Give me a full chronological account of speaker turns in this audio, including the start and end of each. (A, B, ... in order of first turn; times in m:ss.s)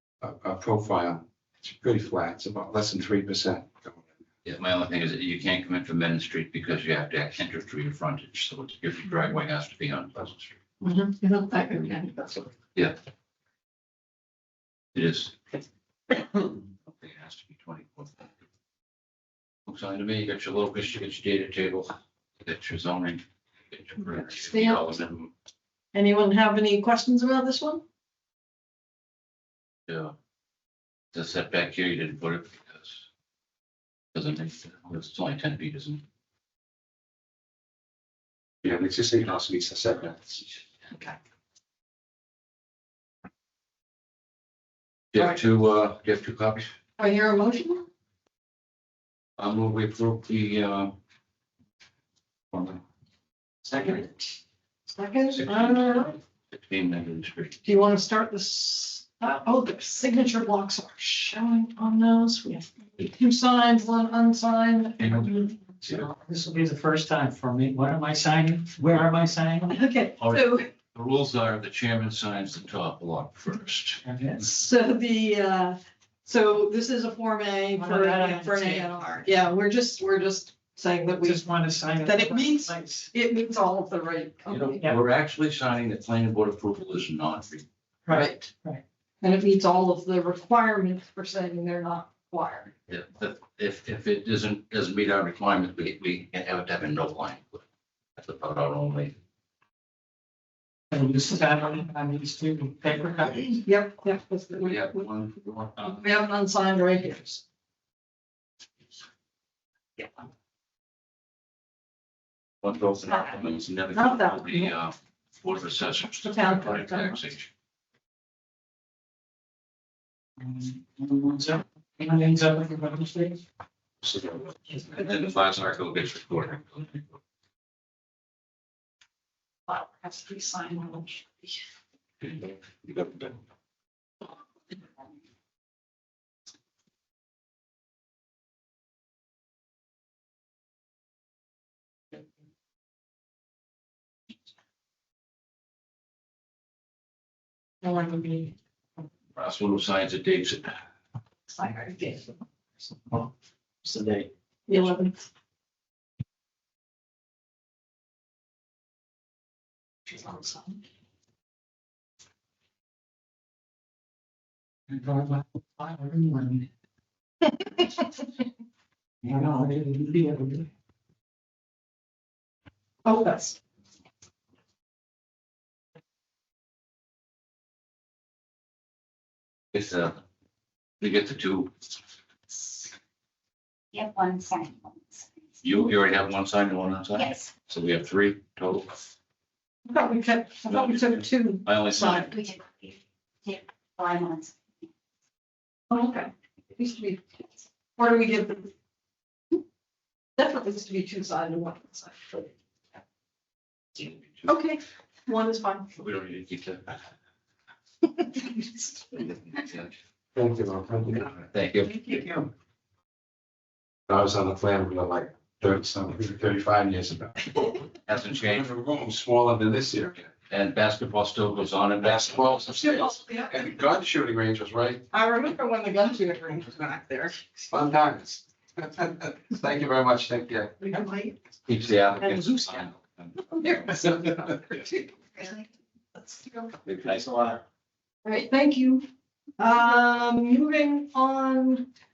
0:00.2-0:04.0 A
0:04.4-0:10.6 B
0:10.8-0:12.5 C
0:14.9-0:15.4 B
0:16.3-0:18.3 B
0:19.7-0:25.3 B
0:24.3-0:24.9 C
0:25.9-0:27.8 C
0:29.9-0:30.1 B
0:31.1-0:33.0 B
0:34.1-0:36.0 B
0:38.6-0:40.4 A
0:45.1-0:46.7 B
0:47.0-0:47.9 C
0:49.4-0:50.9 B
0:52.5-0:52.8 B
0:53.7-0:54.1 C
0:54.9-0:56.2 C
0:55.3-0:57.6 B
0:57.6-1:05.5 C
1:05.0-1:06.0 B
1:05.9-1:09.8 D
1:09.7-1:10.7 C
1:10.2-1:14.0 B
1:14.0-1:14.4 D
1:14.4-1:21.4 C
1:17.8-1:18.9 D
1:21.2-1:23.1 D
1:22.0-1:24.8 C
1:24.5-1:27.6 B
1:28.0-1:28.8 D
1:28.1-1:28.5 C
1:29.2-1:32.7 C
1:32.9-1:37.6 B
1:38.2-1:39.1 B
1:40.9-1:43.6 D
1:43.6-1:45.0 C
1:44.6-1:46.1 B
1:45.8-1:47.4 C
1:52.6-1:57.5 B
1:53.9-1:54.7 C
1:56.2-1:57.2 C
2:00.4-2:03.4 D
2:04.8-2:07.0 B
2:09.7-2:11.5 C
2:12.2-2:13.3 B
2:27.8-2:28.5 C
2:29.3-2:30.8 B
2:31.5-2:32.2 C
2:33.8-2:34.3 D
2:34.7-2:35.2 C
2:40.1-2:40.8 C
2:44.9-2:46.6 D
2:49.2-2:50.6 D
2:53.0-2:53.6 C
2:59.7-3:00.2 B
3:01.0-3:01.7 B
3:03.9-3:05.3 E
3:05.6-3:09.0 B
3:07.1-3:07.5 E
3:09.9-3:12.4 C
3:10.7-3:12.4 B
3:12.3-3:14.6 E
3:15.9-3:17.2 C
3:18.0-3:18.7 C
3:20.4-3:22.5 C
3:24.4-3:25.9 C
3:25.9-3:26.9 B
3:28.4-3:28.8 C
3:29.1-3:29.9 B
3:30.3-3:31.4 A
3:31.5-3:31.9 B
3:34.1-3:37.8 A
3:38.0-3:38.7 B
3:38.4-3:40.3 A
3:40.5-3:42.6 B
3:42.0-3:45.0 A
3:42.8-3:43.7 C
3:45.1-3:47.5 C
3:47.7-3:50.7 A
3:50.8-3:51.4 C
3:51.7-3:53.3 B
3:52.2-3:55.6 C
3:56.3-3:56.7 C
3:56.8-3:57.6 B
3:58.2-3:59.0 C
3:59.6-4:01.9 C